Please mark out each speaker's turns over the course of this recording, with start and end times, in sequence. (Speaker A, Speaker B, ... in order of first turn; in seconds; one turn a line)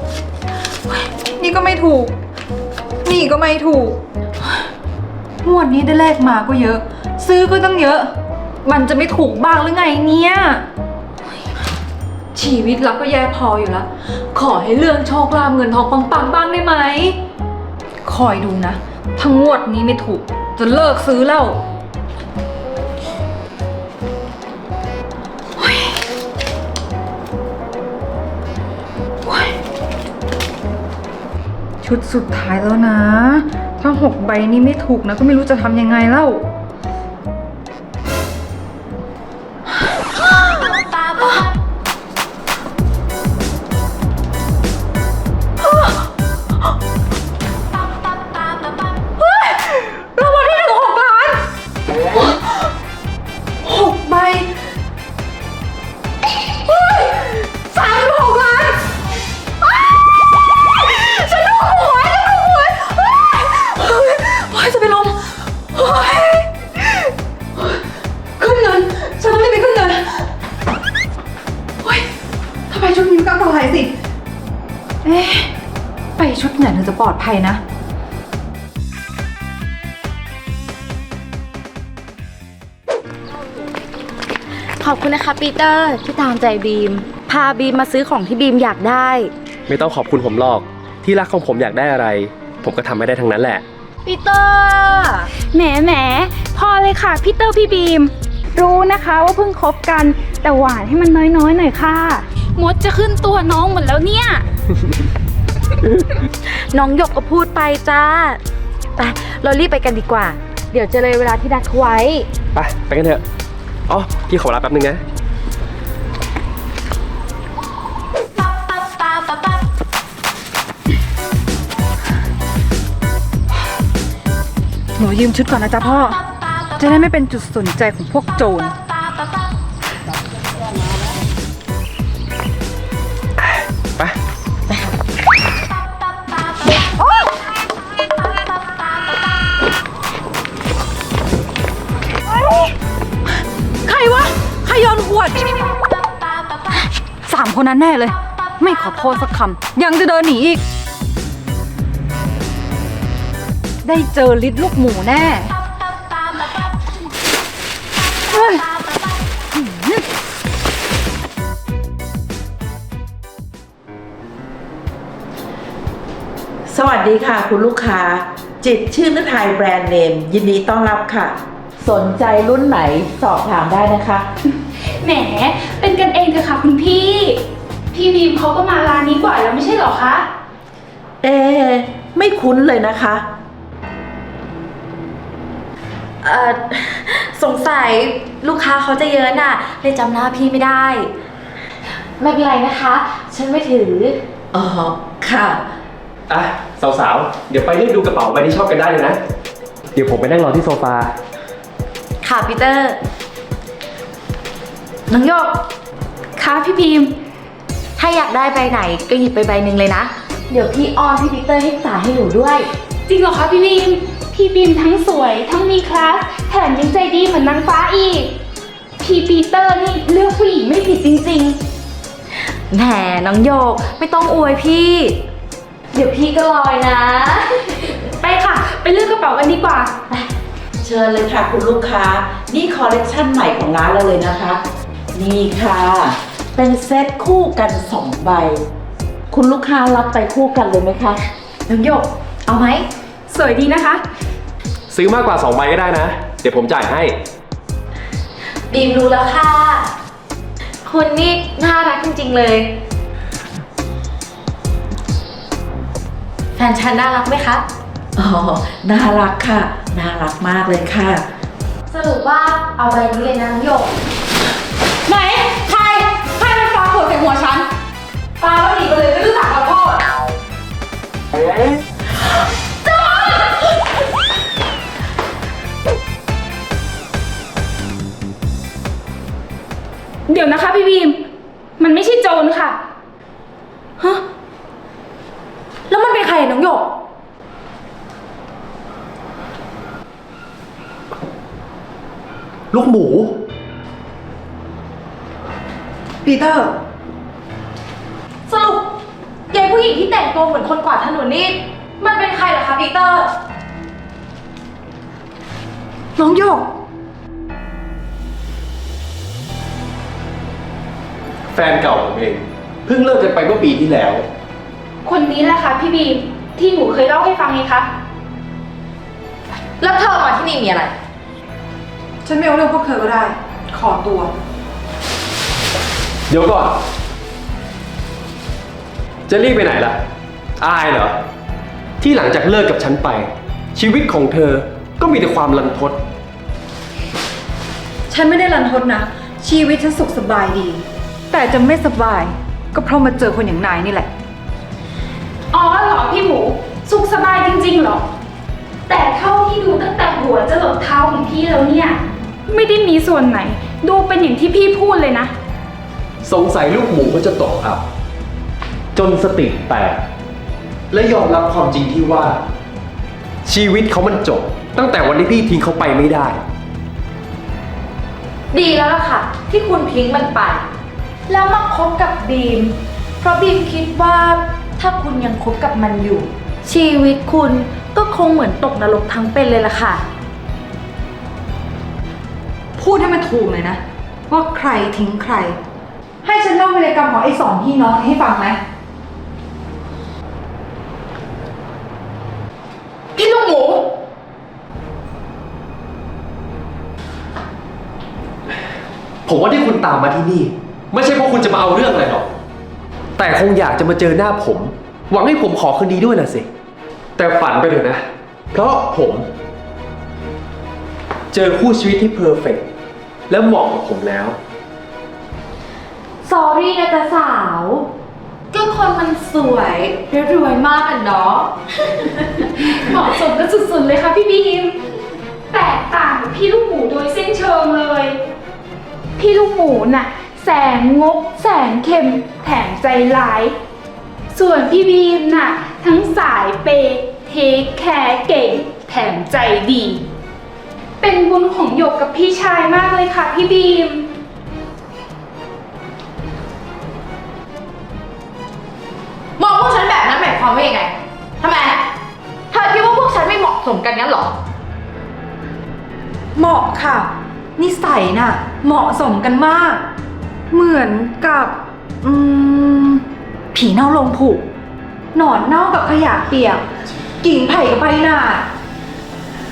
Speaker A: 0.9-2.1
Speaker A: 3.0-4.6
Speaker A: 5.4-8.1
Speaker A: 8.7-10.7
Speaker A: 12.3-17.2
Speaker A: 18.1-21.6
Speaker A: 25.6-25.9
Speaker A: 29.2-29.6
Speaker A: 31.8-36.4
Speaker A: 45.6-45.9
Speaker A: 49.2-51.4
Speaker A: 53.6-54.5
Speaker A: 56.5-58.8
Speaker A: 60.8-67.8
Speaker A: 68.4-70.2
Speaker A: 72.7-73.9
Speaker A: 75.0-75.5
Speaker A: 76.2-77.6
Speaker B: 84.8-89.3
Speaker C: 89.7-93.6
Speaker B: 94.1-95.3
Speaker D: 95.5-104.5
Speaker B: 106.5-108.4
Speaker B: 109.0-112.3
Speaker C: 112.5-113.2
Speaker C: 113.9-115.0
Speaker A: 125.0-126.2
Speaker A: 126.8-128.8
Speaker C: 133.4-134.2
Speaker A: 137.0-137.3
Speaker A: 143.9-145.6
Speaker A: 147.3-150.6
Speaker A: 153.8-155.6
Speaker A: 158.3-158.7
Speaker A: 159.5-160.0
Speaker E: 166.7-174.3
Speaker D: 174.9-177.4
Speaker D: 177.9-180.3
Speaker E: 181.2-183.3
Speaker B: 186.2-191.1
Speaker B: 192.2-194.2
Speaker E: 194.5-195.6
Speaker C: 196.3-199.2
Speaker C: 199.9-201.1
Speaker B: 202.2-203.0
Speaker B: 205.1-205.6
Speaker B: 206.4-207.1
Speaker B: 208.0-212.7
Speaker D: 213.1-218.3
Speaker D: 219.0-221.6
Speaker B: 222.4-225.2
Speaker B: 225.9-227.9
Speaker D: 228.2-229.9
Speaker E: 230.8-234.6
Speaker E: 235.1-238.7
Speaker E: 239.3-241.2
Speaker B: 241.7-242.9
Speaker D: 243.3-244.0
Speaker C: 244.9-247.2
Speaker B: 248.7-249.9
Speaker B: 250.8-252.7
Speaker B: 256.6-257.6
Speaker E: 258.1-261.2
Speaker B: 261.9-263.9
Speaker D: 265.1-267.7
Speaker B: 268.4-270.0
Speaker B: 272.8-273.7
Speaker D: 280.3-281.2
Speaker D: 281.8-282.8
Speaker B: 285.9-286.9
Speaker C: 292.7-293.3
Speaker A: 296.2-296.7
Speaker B: 298.5-298.9
Speaker B: 299.5-303.3
Speaker A: 306.2-306.7
Speaker C: 311.5-314.2
Speaker D: 315.0-317.9
Speaker B: 319.8-320.9
Speaker A: 322.2-324.3
Speaker C: 326.3-326.8
Speaker C: 329.3-330.0
Speaker C: 330.6-331.1
Speaker C: 332.0-336.0
Speaker A: 338.1-344.1
Speaker D: 345.5-348.1
Speaker D: 348.9-355.3
Speaker C: 356.2-357.8
Speaker C: 358.9-360.0
Speaker C: 360.9-362.4
Speaker C: 363.4-366.4
Speaker B: 368.5-370.6
Speaker B: 371.3-380.0
Speaker A: 382.8-385.6
Speaker A: 386.2-388.6
Speaker D: 393.2-393.9
Speaker C: 399.3-402.3
Speaker C: 403.2-406.5
Speaker C: 407.2-408.0
Speaker C: 408.5-409.3
Speaker C: 411.3-412.6
Speaker C: 413.3-414.4
Speaker B: 416.2-417.9
Speaker B: 418.5-421.5
Speaker D: 422.6-424.8
Speaker D: 425.5-428.2
Speaker D: 429.2-433.5
Speaker D: 434.3-440.1
Speaker D: 441.0-444.1
Speaker B: 449.4-451.8
Speaker B: 452.5-454.4
Speaker A: 456.4-459.8
Speaker A: 460.5-464.4
Speaker A: 465.1-466.6
Speaker A: 467.2-468.5